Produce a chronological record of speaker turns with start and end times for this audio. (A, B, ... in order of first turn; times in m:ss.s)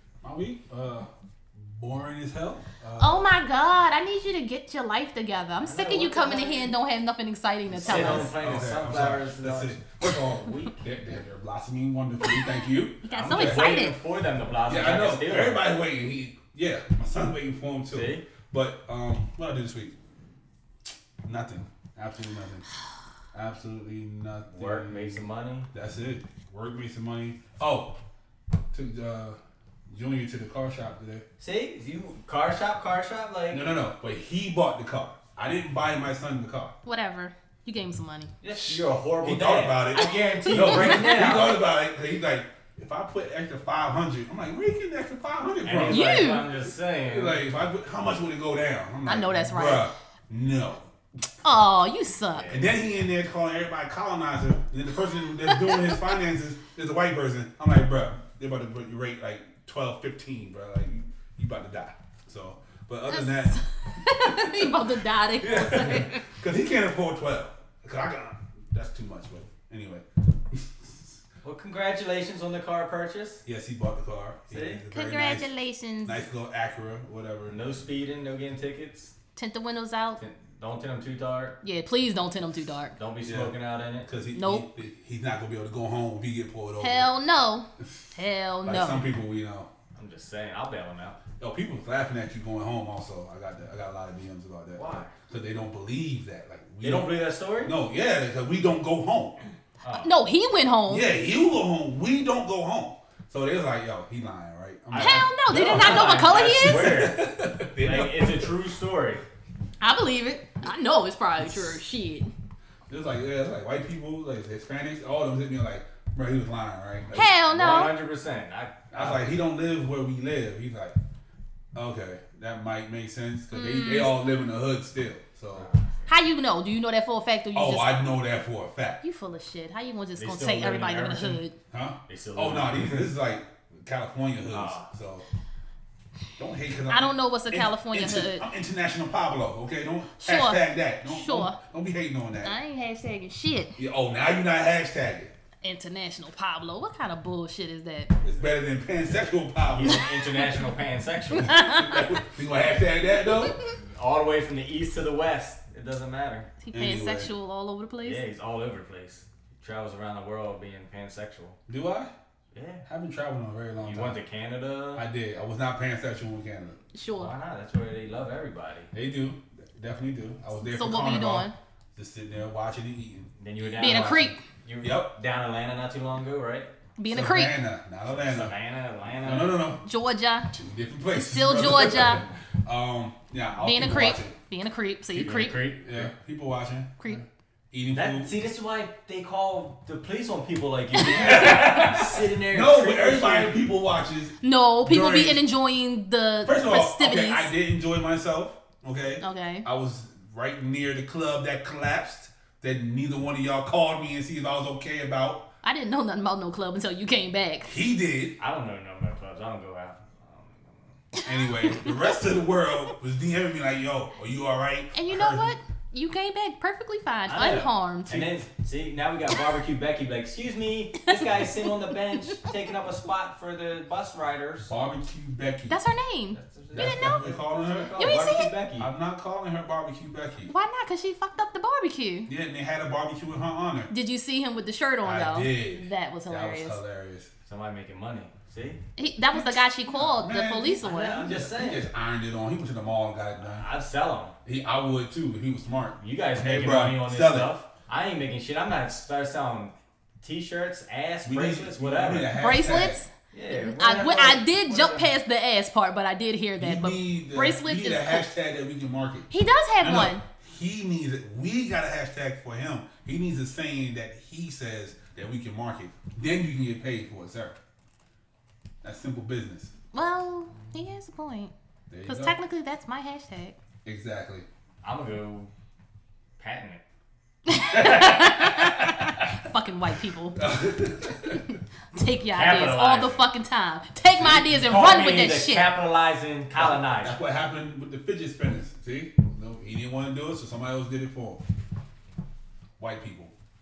0:00.2-0:03.3 A
0:03.0-0:08.3 B
0:05.6-0:06.7 C
0:07.7-0:13.7 A
0:07.8-0:10.8 C
0:13.0-0:14.0 B
0:13.1-0:15.6 C
0:14.7-0:20.0 A
0:17.9-0:18.3 C
0:21.2-0:22.6 A
0:23.3-0:28.0 A
0:24.5-0:25.7 C
0:28.7-0:29.4 A
0:29.9-0:31.2 A
0:31.4-0:33.7 C
0:33.5-0:36.8 A
0:36.8-0:38.3 B
0:38.4-0:41.6 C
0:38.6-0:46.4 A
0:39.9-0:41.2 B
0:45.6-0:47.4 C
0:45.9-0:46.4 B
0:47.0-0:50.9 A
0:49.1-0:49.9 B
0:51.4-0:52.5 B
0:52.3-0:52.7 C
0:52.5-1:03.6 A
0:55.4-0:56.0 B
1:03.1-1:06.3 B
1:04.2-1:04.6 A
1:05.4-1:11.2 A
1:11.4-1:13.4 C
1:13.4-1:15.5 A
1:14.5-1:14.8 C
1:14.9-1:16.2 B
1:16.0-1:17.6 A
1:17.5-1:19.1 C
1:19.4-1:20.2 B
1:20.2-1:21.6 C
1:21.6-1:23.0 B
1:23.0-1:24.1 C
1:23.2-1:27.1 A
1:24.4-1:24.6 B
1:26.8-1:29.1 B
1:28.6-1:29.7 A
1:30.0-1:31.2 C
1:31.4-1:39.4 A
1:34.8-1:35.1 C
1:36.8-1:37.8 C
1:39.8-1:40.1 C
1:40.0-1:41.1 B
1:40.9-1:48.5 A
1:44.9-1:49.2 C
1:44.9-1:47.0 B
1:49.8-1:52.3 B
1:52.9-1:57.3 A
1:57.1-1:58.0 B
1:57.5-1:59.3 C
1:58.9-2:01.0 A
2:01.8-2:05.7 A
2:03.5-2:04.2 B
2:05.6-2:06.1 C
2:06.1-2:08.0 B
2:07.5-2:09.0 A
2:09.0-2:11.6 B
2:10.2-2:11.4 C
2:11.7-2:15.2 A
2:12.1-2:13.1 C
2:14.5-2:14.9 C
2:16.4-2:22.6 A
2:16.9-2:18.4 B
2:20.2-2:21.6 B
2:22.4-2:23.8 B
2:23.8-2:25.3 A
2:25.6-2:28.1 B
2:28.2-2:30.1 A
2:29.6-2:32.0 C
2:31.4-2:32.2 B
2:31.8-2:33.6 A
2:33.8-2:36.5 C
2:36.6-2:38.2 B
2:36.7-2:37.3 A
2:38.0-2:41.6 C
2:41.7-2:42.1 A
2:42.5-2:42.9 C
2:42.9-2:44.2 A
2:43.8-2:45.1 C
2:45.0-2:46.8 A
2:46.9-2:47.3 B
2:47.1-2:48.9 C
2:48.9-2:55.1 A
2:50.6-2:51.6 B
2:53.4-2:56.7 C
2:53.8-2:54.4 B
2:57.0-2:57.6 B
2:57.1-2:58.5 A
2:58.1-2:59.6 C
2:59.2-2:59.8 A
2:59.8-3:00.5 B
3:00.5-3:04.4 A
3:01.2-3:02.2 B
3:03.6-3:05.6 B
3:05.1-3:06.1 C
3:05.8-3:08.3 A
3:07.9-3:13.6 C
3:11.0-3:15.4 A
3:14.4-3:17.5 B
3:16.4-3:25.5 A
3:19.2-3:19.6 B
3:25.6-3:27.8 B
3:27.6-3:28.4 A
3:28.4-3:30.9 C
3:31.1-3:32.0 B
3:31.2-3:35.5 A
3:34.9-3:38.3 B
3:37.3-3:44.7 C
3:41.0-3:42.4 B
3:44.7-3:45.8 A
3:45.7-3:47.3 B
3:46.4-3:48.9 C
3:46.7-3:48.1 A
3:48.0-3:48.5 B
3:48.8-3:50.5 A
3:50.5-3:52.3 B
3:52.3-3:53.9 A
3:53.9-3:56.8 B
3:55.0-3:57.3 A
3:57.5-3:58.8 C
3:59.0-4:01.3 B
3:59.3-4:03.6 A
4:00.8-4:01.8 C
4:03.5-4:04.4 C
4:04.4-4:07.5 A
4:06.0-4:12.3 C
4:11.2-4:13.0 A
4:12.4-4:18.3 B
4:13.3-4:15.1 C
4:16.6-4:19.3 A
4:19.3-4:20.2 B
4:19.8-4:27.6 A
4:28.8-4:29.7 A
4:29.9-4:31.5 B
4:31.9-4:32.4 A
4:32.1-4:33.6 B
4:33.8-4:34.5 A
4:34.8-4:35.5 C
4:36.4-4:36.8 C
4:37.5-4:40.4 B
4:37.7-4:38.3 A
4:40.4-4:41.5 A
4:41.9-4:45.7 B
4:42.3-4:43.3 C
4:44.2-4:44.6 A
4:44.2-4:47.2 C
4:46.6-4:51.4 A
4:52.8-4:53.3 A